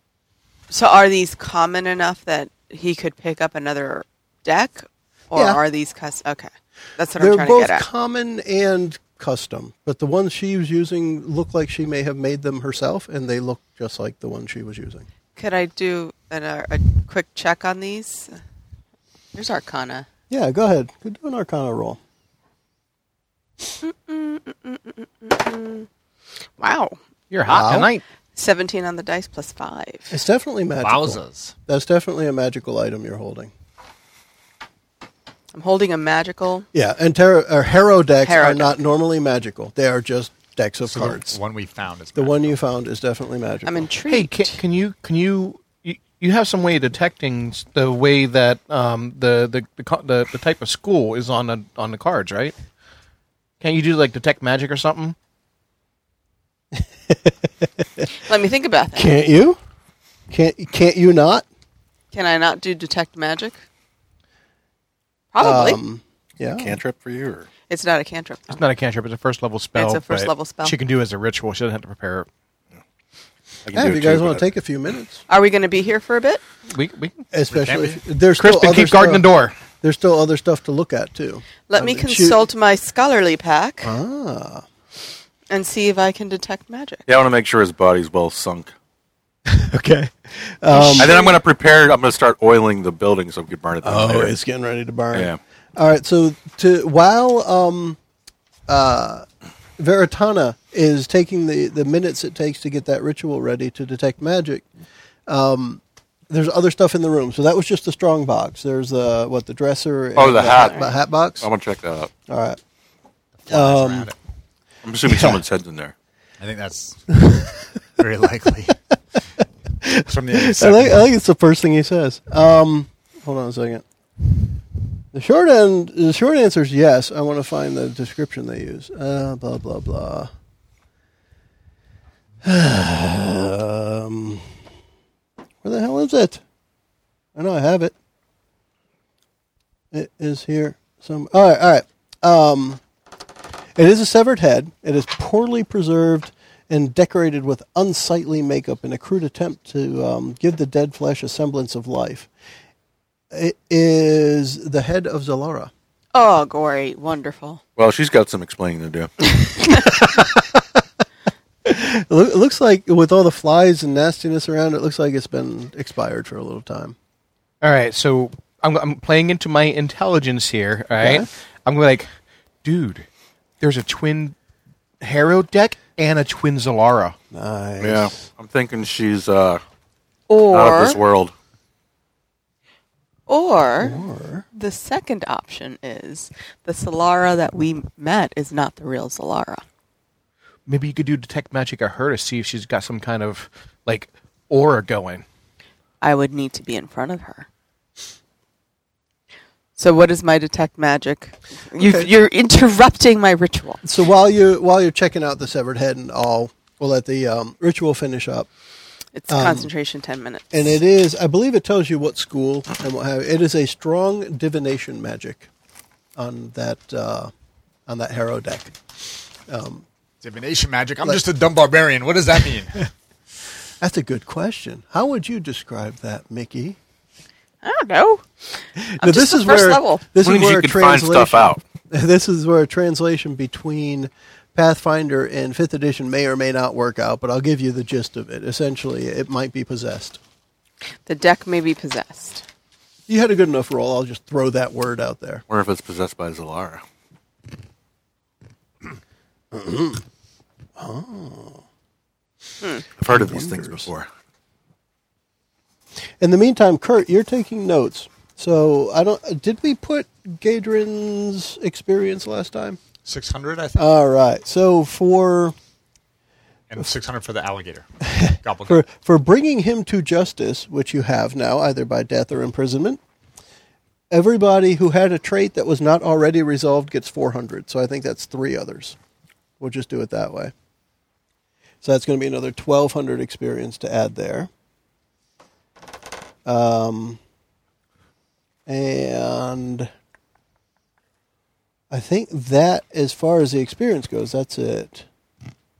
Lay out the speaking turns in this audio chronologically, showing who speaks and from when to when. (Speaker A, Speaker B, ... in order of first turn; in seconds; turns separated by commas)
Speaker A: 0.7-7.8, Speaker B: 5.3-5.6, Speaker B: 7.2-15.1, Speaker A: 15.3-18.3, Speaker A: 19.3-20.1, Speaker B: 20.3-22.0, Speaker A: 23.8-25.9, Speaker A: 26.6-27.0, Speaker C: 27.3-28.0, Speaker B: 27.5-27.9, Speaker A: 28.4-30.1, Speaker B: 30.1-33.5, Speaker D: 30.8-31.5, Speaker A: 35.5-36.7, Speaker B: 36.7-41.4, Speaker A: 38.2-38.7, Speaker D: 40.9-42.6, Speaker B: 42.1-43.9, Speaker A: 43.6-44.6, Speaker C: 44.1-52.5, Speaker C: 53.6-55.1, Speaker B: 57.1-57.4, Speaker A: 58.2-59.1, Speaker B: 59.0-59.6, Speaker B: 60.3-61.4, Speaker A: 62.1-63.6, Speaker A: 65.3-65.8, Speaker B: 65.4-66.8, Speaker E: 66.5-67.5, Speaker A: 67.7-68.6, Speaker C: 68.5-72.3, Speaker A: 69.7-70.8, Speaker E: 73.7-74.5, Speaker B: 73.7-75.2, Speaker A: 75.3-76.4, Speaker C: 76.7-77.2, Speaker B: 77.3-79.2, Speaker D: 77.5-78.0, Speaker C: 78.4-79.5, Speaker B: 79.8-82.4, Speaker A: 81.7-83.9, Speaker B: 83.8-84.6, Speaker A: 85.5-87.0, Speaker E: 87.1-88.7, Speaker B: 89.5-91.2, Speaker A: 90.7-91.3, Speaker E: 91.0-94.4, Speaker B: 93.8-98.0, Speaker E: 95.1-95.4, Speaker B: 98.7-99.2, Speaker B: 99.8-104.7, Speaker B: 105.3-111.5, Speaker E: 110.2-112.1, Speaker A: 110.5-110.9, Speaker B: 112.3-112.6, Speaker D: 113.4-114.1, Speaker B: 113.5-114.1, Speaker E: 114.8-115.9, Speaker D: 116.4-118.8, Speaker B: 119.8-123.8, Speaker D: 120.0-121.1, Speaker B: 125.1-130.3, Speaker B: 132.4-134.5, Speaker B: 135.6-136.4, Speaker B: 137.3-137.9, Speaker B: 139.9-142.8, Speaker B: 143.8-152.3, Speaker B: 153.3-155.7, Speaker A: 156.1-157.6, Speaker E: 157.8-159.1, Speaker B: 159.6-160.6, Speaker B: 161.6-166.9, Speaker C: 167.6-172.1, Speaker B: 171.0-171.3, Speaker C: 172.6-173.1, Speaker C: 173.6-174.3, Speaker C: 175.0-177.2, Speaker B: 177.3-178.3, Speaker E: 177.8-179.6, Speaker A: 180.3-181.0, Speaker E: 180.5-181.3, Speaker A: 183.3-184.0, Speaker B: 183.8-184.4, Speaker A: 184.5-189.6, Speaker C: 190.7-195.2, Speaker A: 196.0-197.5, Speaker A: 199.8-203.8, Speaker B: 201.8-202.1, Speaker B: 203.8-208.5, Speaker A: 209.1-210.8, Speaker B: 209.3-209.7, Speaker B: 210.5-215.5, Speaker B: 216.2-217.3, Speaker B: 217.9-218.8, Speaker B: 219.5-219.8, Speaker D: 220.2-222.8, Speaker B: 223.8-226.8, Speaker A: 227.6-228.2, Speaker B: 228.8-240.2, Speaker A: 229.0-230.0, Speaker E: 230.2-231.6, Speaker A: 241.1-242.4, Speaker B: 243.1-245.4, Speaker E: 245.5-246.8, Speaker B: 249.5-250.0, Speaker B: 250.8-251.6, Speaker E: 253.0-254.1, Speaker B: 253.1-253.9, Speaker B: 256.2-262.8, Speaker D: 263.0-263.8, Speaker B: 263.7-265.5, Speaker D: 266.7-268.8, Speaker B: 268.1-273.0, Speaker B: 274.1-279.0, Speaker B: 279.6-280.5, Speaker B: 281.8-284.5, Speaker B: 286.4-287.2, Speaker B: 288.7-289.9, Speaker B: 291.9-295.1